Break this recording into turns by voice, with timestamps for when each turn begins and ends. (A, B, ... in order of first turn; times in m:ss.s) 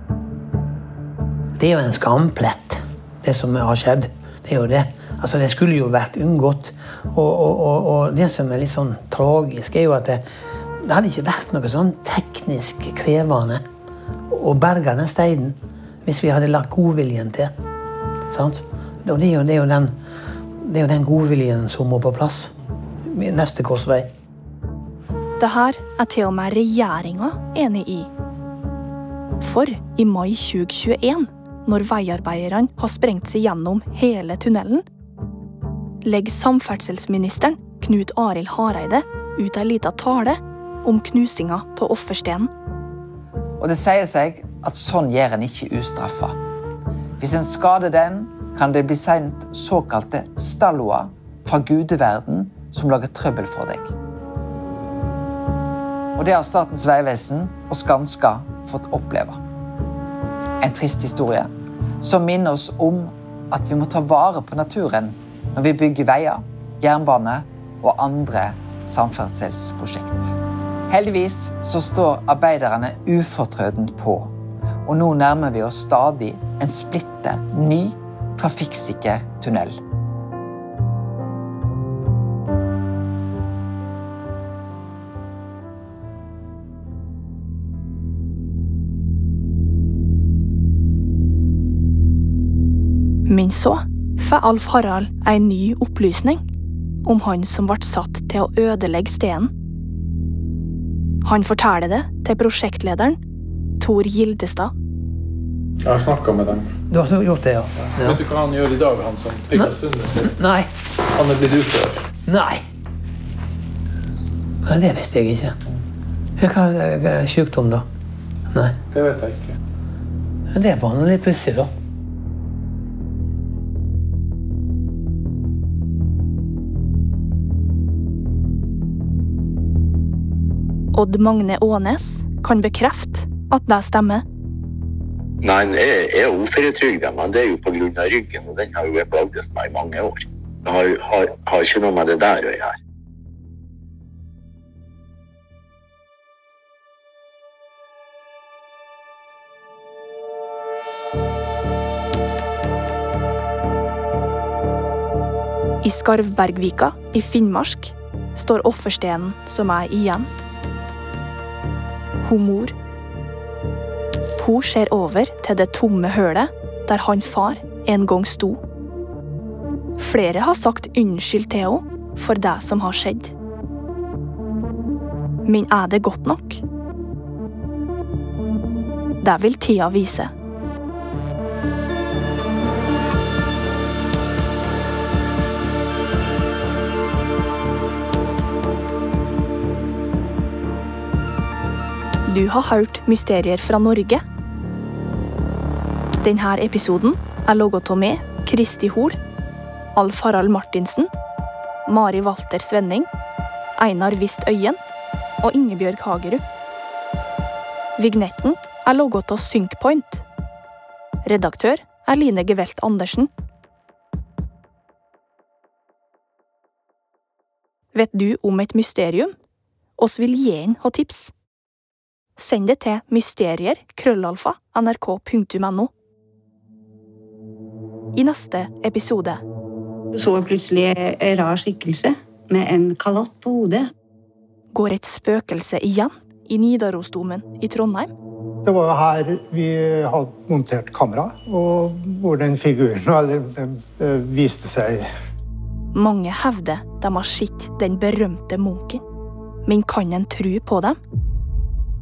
0:01.6-0:10.2 A
0:10.8-0:13.6 A
0:14.3-0:17.5 A
0:18.3-0:20.0 A
0:20.6-0:22.5 A
0:23.0-0:24.1 A
0:25.4-0:28.1 B
0:29.4-0:34.8 B
0:36.0-0:42.5 B
0:43.6-0:46.4 C
0:47.2-0:53.9 C
0:56.2-0:59.4 C
1:00.6-1:01.5 C
1:02.0-1:10.4 C
1:10.9-1:14.3 C
1:14.9-1:19.8 C
1:33.3-1:36.4 B
1:37.0-1:39.5 B
1:41.2-1:43.2 B
1:43.8-1:44.7 B
1:45.8-1:46.7 D
1:46.9-1:48.2 A
1:48.0-1:50.3 D
1:49.6-1:50.7 A
1:51.1-1:52.0 D
1:52.2-1:52.6 A
1:54.6-1:55.6 A
1:56.4-1:57.8 A
1:58.5-1:58.8 A
1:58.9-1:59.6 D
2:00.5-2:01.7 A
2:10.9-2:14.2 B
2:15.4-2:22.7 E
2:35.8-2:40.3 B
2:42.2-2:42.7 B
2:44.4-2:48.6 B
2:50.0-2:53.3 B
2:55.4-2:56.6 B
2:59.2-3:00.3 B
3:12.3-3:14.2 B
3:16.2-3:19.2 B
3:19.9-3:21.1 B
3:21.9-3:23.1 B
3:23.8-3:24.8 B
3:25.4-3:26.4 B
3:28.0-3:30.2 B
3:31.2-3:33.3 B
3:37.9-3:39.4 B
3:40.0-3:41.3 B
3:42.4-3:45.9 B
3:48.1-3:49.4 B
3:50.1-3:53.9 F
3:54.7-3:58.1 B
3:58.6-4:05.1 G
4:05.9-4:09.0 B
4:09.6-4:11.0 B